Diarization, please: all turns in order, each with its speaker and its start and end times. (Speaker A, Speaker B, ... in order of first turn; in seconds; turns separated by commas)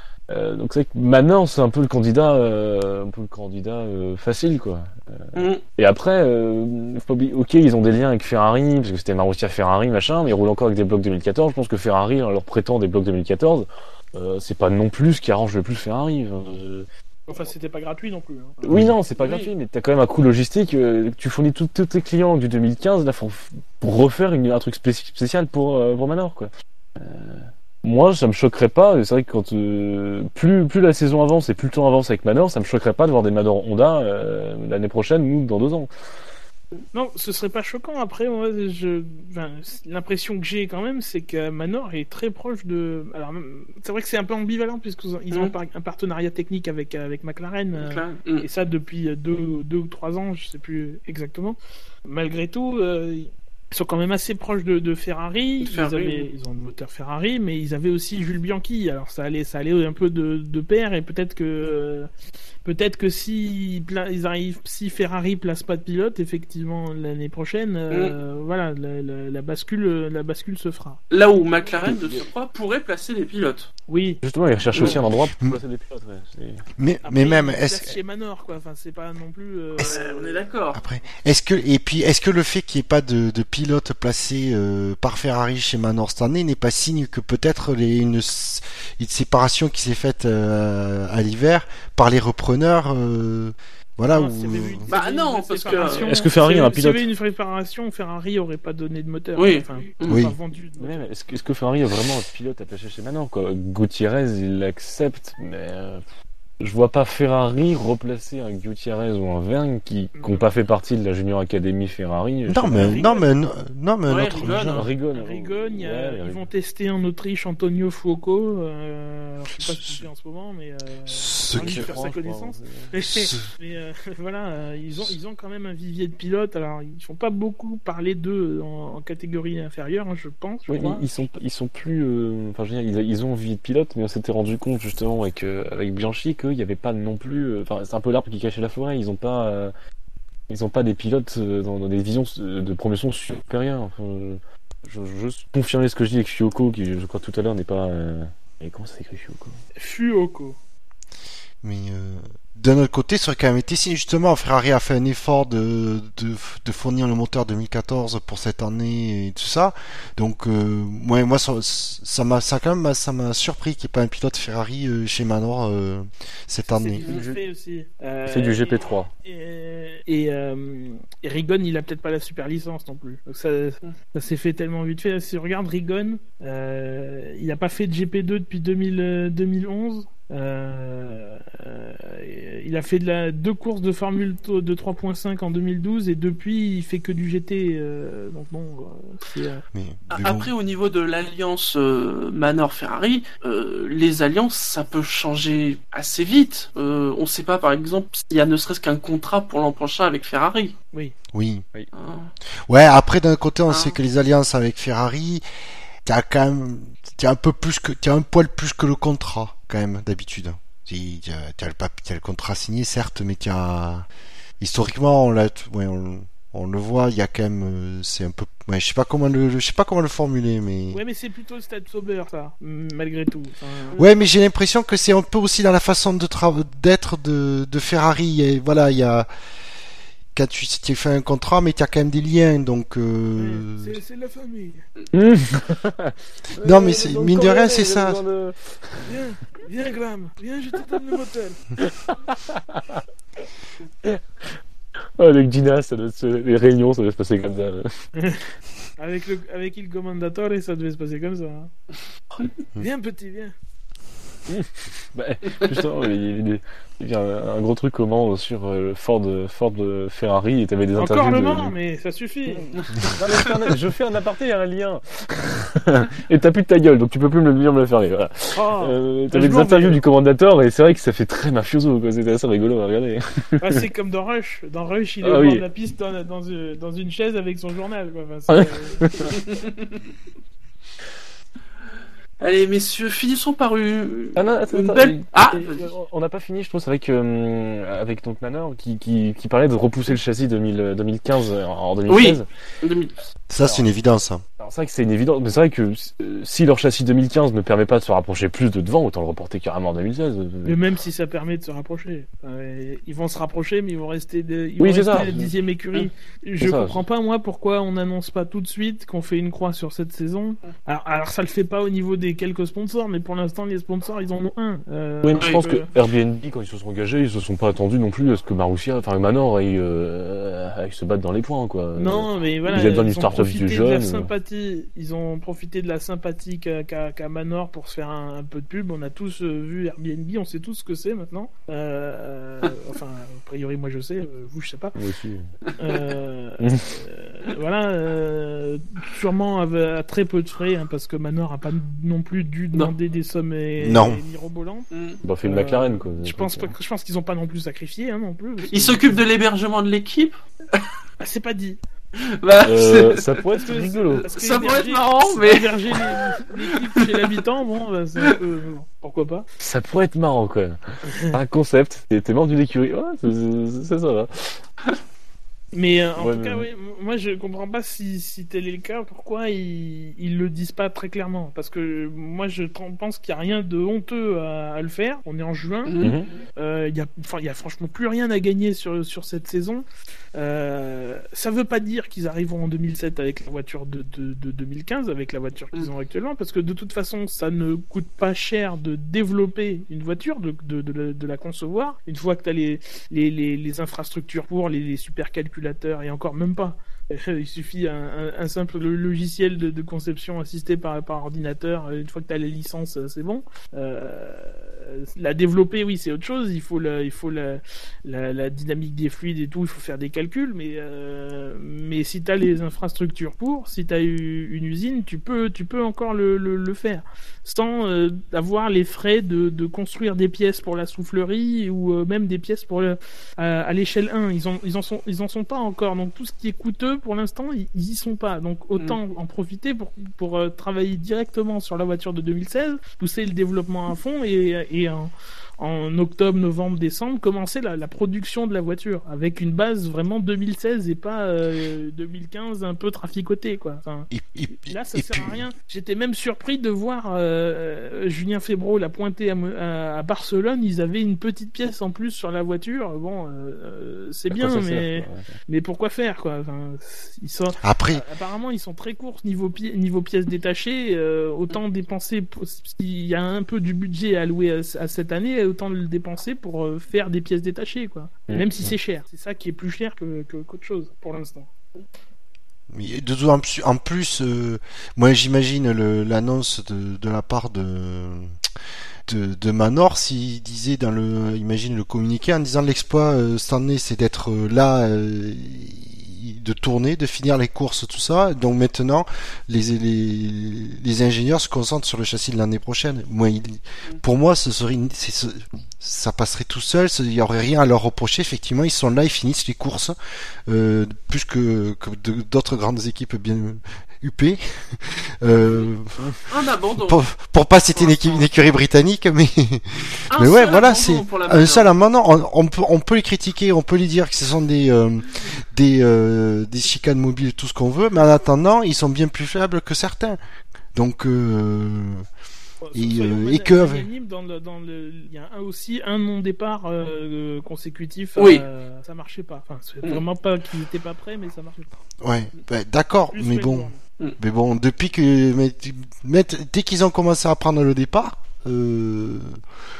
Speaker A: 0.3-16.9, Speaker B: 5.3-5.6, Speaker C: 17.3-18.8, Speaker A: 18.6-35.9, Speaker B: 19.2-19.5, Speaker C: 36.9-62.1, Speaker B: 47.8-48.5, Speaker B: 55.6-56.3, Speaker C: 62.6-71.0, Speaker B: 71.1-73.7, Speaker A: 71.8-72.3, Speaker C: 73.9-74.2, Speaker A: 74.2-76.7, Speaker C: 74.7-75.0, Speaker B: 74.7-75.0, Speaker D: 76.8-78.0, Speaker C: 77.0-80.4, Speaker B: 79.8-80.8, Speaker D: 80.7-94.9, Speaker C: 94.1-101.1, Speaker B: 94.9-96.1, Speaker A: 95.7-97.0, Speaker B: 99.4-100.2, Speaker D: 100.1-100.3, Speaker A: 100.8-106.1, Speaker A: 106.6-113.0, Speaker C: 110.2-110.5, Speaker D: 112.5-114.8, Speaker C: 112.8-113.3, Speaker B: 114.1-114.9, Speaker A: 114.7-116.5, Speaker C: 115.1-131.1, Speaker D: 119.6-119.9, Speaker D: 121.1-121.9, Speaker A: 121.5-122.9, Speaker D: 123.1-123.4, Speaker A: 130.7-139.7, Speaker A: 140.5-149.6, Speaker C: 149.8-150.6, Speaker D: 151.6-167.0, Speaker C: 166.7-189.6, Speaker A: 167.1-167.4, Speaker A: 168.3-169.1, Speaker D: 189.7-190.5, Speaker B: 190.1-200.7, Speaker D: 201.3-201.6, Speaker B: 201.9-202.3, Speaker D: 202.7-205.4, Speaker B: 203.7-204.0, Speaker D: 206.0-214.1, Speaker D: 214.6-221.0, Speaker C: 220.9-224.1, Speaker D: 223.9-229.3, Speaker D: 230.3-233.9, Speaker C: 233.4-234.8, Speaker A: 235.1-239.1, Speaker D: 236.6-238.2, Speaker C: 239.1-241.6, Speaker A: 241.8-243.0, Speaker A: 244.0-244.6, Speaker A: 245.2-248.1, Speaker C: 248.2-251.7, Speaker C: 252.8-253.5, Speaker A: 254.5-261.7, Speaker C: 260.9-262.7, Speaker A: 262.5-273.8, Speaker B: 263.3-263.5, Speaker C: 268.5-270.0, Speaker C: 273.6-279.3, Speaker A: 275.2-275.6, Speaker A: 278.5-279.3, Speaker B: 279.4-279.9, Speaker B: 282.4-285.9, Speaker A: 284.4-292.5, Speaker B: 292.1-293.1, Speaker D: 293.5-294.4, Speaker A: 293.6-293.9, Speaker A: 294.6-300.8, Speaker C: 300.6-315.9, Speaker A: 304.8-305.5, Speaker A: 306.6-307.0, Speaker A: 315.2-324.3, Speaker C: 321.9-334.9, Speaker A: 334.9-335.5, Speaker C: 335.8-344.9, Speaker A: 336.6-336.9, Speaker D: 343.8-344.2, Speaker B: 344.9-345.2, Speaker A: 345.2-346.7, Speaker C: 345.4-349.2, Speaker B: 348.7-350.9, Speaker C: 351.2-351.8, Speaker B: 352.4-353.4, Speaker A: 352.6-354.3, Speaker C: 353.6-359.4, Speaker B: 354.0-356.2, Speaker A: 359.6-364.6, Speaker C: 361.1-361.3, Speaker C: 365.7-375.9, Speaker A: 366.2-366.6, Speaker B: 375.9-376.2, Speaker A: 376.0-376.3, Speaker C: 376.6-471.5, Speaker D: 444.1-445.4, Speaker A: 454.3-455.3, Speaker D: 457.6-458.0, Speaker A: 468.3-468.7, Speaker D: 472.7-478.3, Speaker D: 479.1-499.9, Speaker D: 500.5-520.2, Speaker B: 505.4-505.7, Speaker B: 506.3-507.0, Speaker B: 507.7-508.3, Speaker B: 510.1-511.7, Speaker D: 520.7-522.1, Speaker C: 522.6-531.7, Speaker D: 522.7-523.9, Speaker B: 528.2-528.4, Speaker D: 532.0-539.4, Speaker C: 533.1-533.8